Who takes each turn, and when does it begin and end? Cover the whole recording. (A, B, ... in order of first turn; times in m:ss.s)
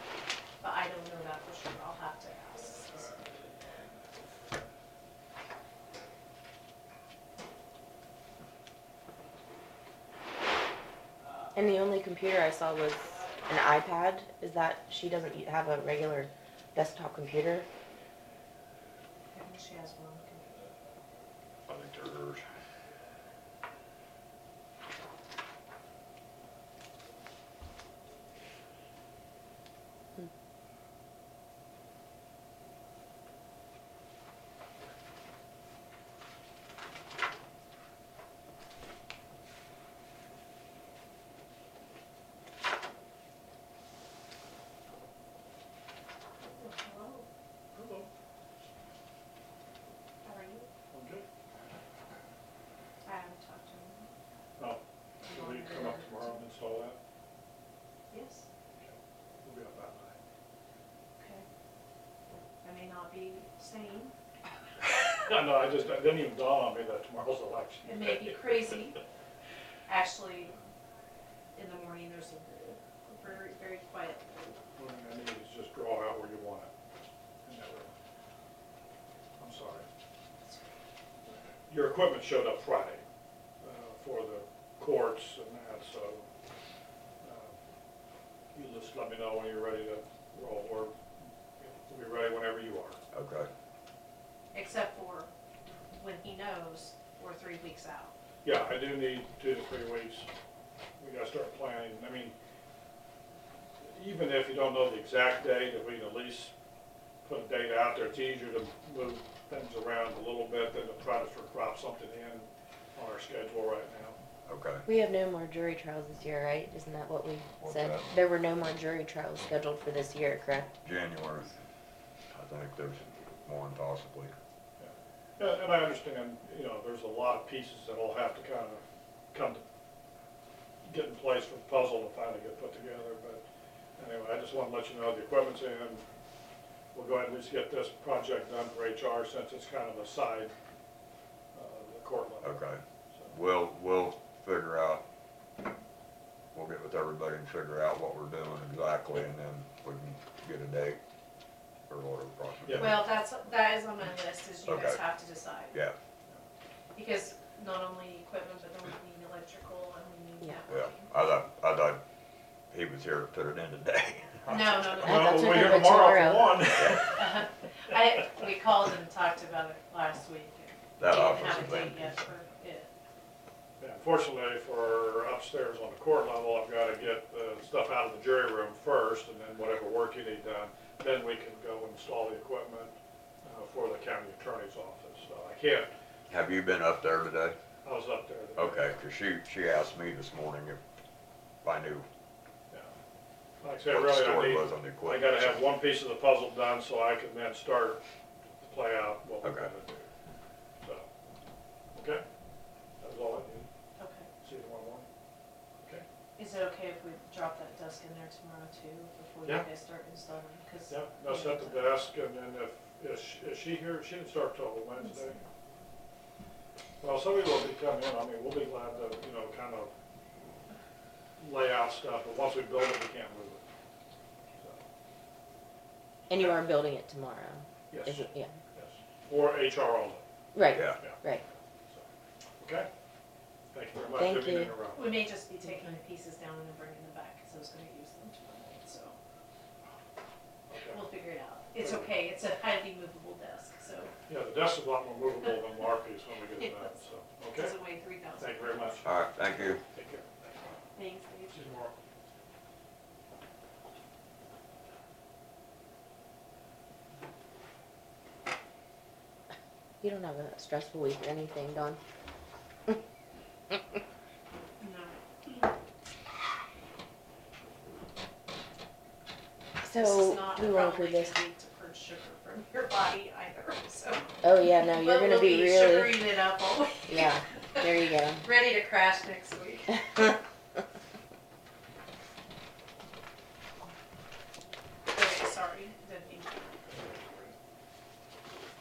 0:00.6-0:03.2 A
0:11.5-0:17.7 B
0:19.3-0:20.6 A
0:21.7-0:22.4 C
0:46.5-0:47.3 A
0:47.7-0:48.1 D
0:50.2-0:50.7 A
0:50.9-0:51.2 D
0:53.0-0:54.1 A
0:54.6-0:57.0 D
0:55.2-0:56.4 A
0:58.1-0:58.4 A
0:58.8-1:00.2 D
1:01.2-1:01.4 A
1:02.6-1:04.1 A
1:05.2-1:08.8 D
1:07.8-1:09.0 A
1:09.9-1:10.6 A
1:11.5-1:14.5 A
1:14.8-1:16.7 D
1:17.4-1:17.9 D
1:19.4-1:19.9 D
1:21.2-1:23.0 D
1:23.6-1:26.2 D
1:27.2-1:27.6 D
1:28.5-1:30.9 D
1:31.6-1:33.0 D
1:33.1-1:33.5 C
1:34.5-1:35.3 A
1:35.9-1:38.1 A
1:38.4-1:40.3 D
1:41.0-1:42.3 D
1:43.8-1:46.5 D
1:47.2-1:54.2 D
1:54.5-1:54.8 C
1:54.8-2:00.7 B
1:57.6-1:58.1 C
2:00.8-2:01.5 C
2:02.3-2:04.3 C
2:04.8-2:08.8 D
2:09.3-2:09.6 D
2:10.8-2:13.4 D
2:14.0-2:16.0 D
2:16.9-2:20.5 D
2:21.5-2:22.6 D
2:22.4-2:25.0 C
2:26.5-2:31.0 C
2:31.9-2:33.1 C
2:32.6-2:33.0 D
2:32.8-2:35.8 A
2:34.6-2:35.0 C
2:36.9-2:41.1 A
2:40.7-2:42.0 C
2:42.7-2:44.9 C
2:44.4-2:47.3 D
2:44.5-2:45.9 A
2:45.0-2:46.6 B
2:46.8-2:47.2 C
2:47.2-2:52.9 A
2:51.0-2:52.1 C
2:53.8-3:05.9 D
3:06.3-3:07.6 C
3:07.8-3:08.9 D
3:08.6-3:10.8 C
3:11.6-3:12.0 C
3:13.6-3:18.0 D
3:13.9-3:15.6 C
3:18.6-3:20.1 D
3:19.4-3:19.7 C
3:20.8-3:21.1 D
3:21.9-3:22.2 D
3:23.0-3:23.7 D
3:24.0-3:24.3 A
3:24.4-3:25.0 D
3:25.8-3:26.0 D
3:26.4-3:31.9 A
3:30.9-3:35.4 D
3:35.0-3:35.4 A
3:37.0-3:39.9 D
3:41.4-3:43.6 D
3:44.6-3:44.8 D
3:46.3-3:48.5 B
3:47.9-3:50.2 D
3:50.5-3:51.4 B
3:50.7-3:51.0 C
3:52.6-3:52.9 D
3:53.7-3:55.2 D
3:54.1-3:54.7 B
3:54.9-3:59.2 A
4:00.7-4:01.0 D
4:00.9-4:04.1 A
4:01.8-4:02.1 D
4:04.3-4:07.8 D
4:06.6-4:06.9 A
4:07.5-4:08.9 A
4:08.4-4:09.1 D
4:09.0-4:09.8 C
4:09.9-4:10.6 D
4:10.9-4:11.6 A
4:11.5-4:11.9 D
4:20.0-4:22.0 B
4:24.8-4:25.7 A
4:29.8-4:31.4 B
4:29.9-4:37.9 A
4:34.4-4:36.3 B
4:37.1-4:38.4 B
4:38.4-4:40.1 A
4:45.1-4:47.5 A